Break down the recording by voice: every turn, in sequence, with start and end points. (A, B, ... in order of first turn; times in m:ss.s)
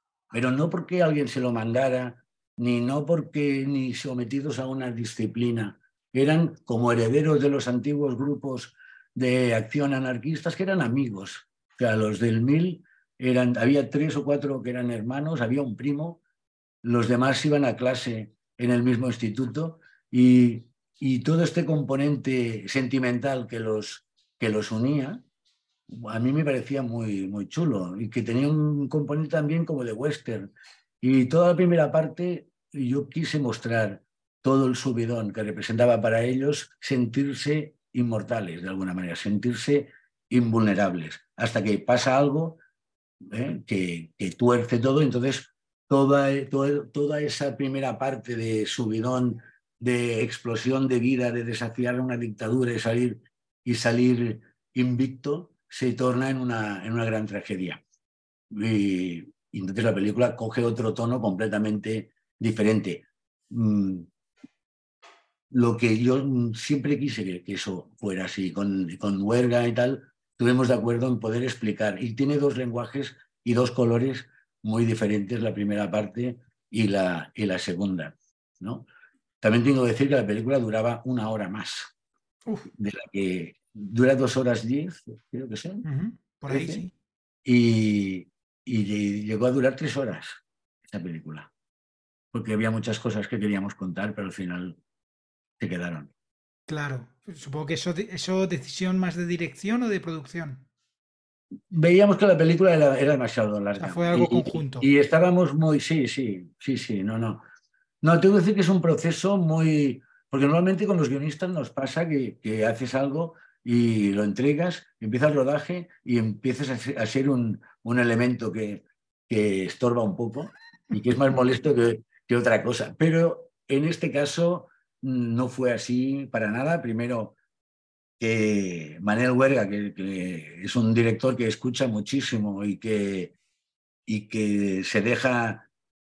0:00.3-0:16.2 A
0:16.8-0:25.2 A
0:25.9-0:30.5 A
0:31.0-0:42.6 A
0:43.3-0:57.8 A
0:58.5-1:04.1 A
1:05.5-1:18.9 A
1:19.4-1:21.9 A
1:22.8-1:25.8 A
1:25.8-1:26.9 B
1:26.5-1:26.8 A
1:27.4-1:31.5 A
1:32.3-1:34.8 A
1:35.6-1:36.1 A
1:36.7-1:40.6 B
1:41.7-1:47.4 A
1:43.8-1:44.9 B
1:48.0-2:07.4 A
2:08.2-2:13.3 A
2:14.1-2:15.7 A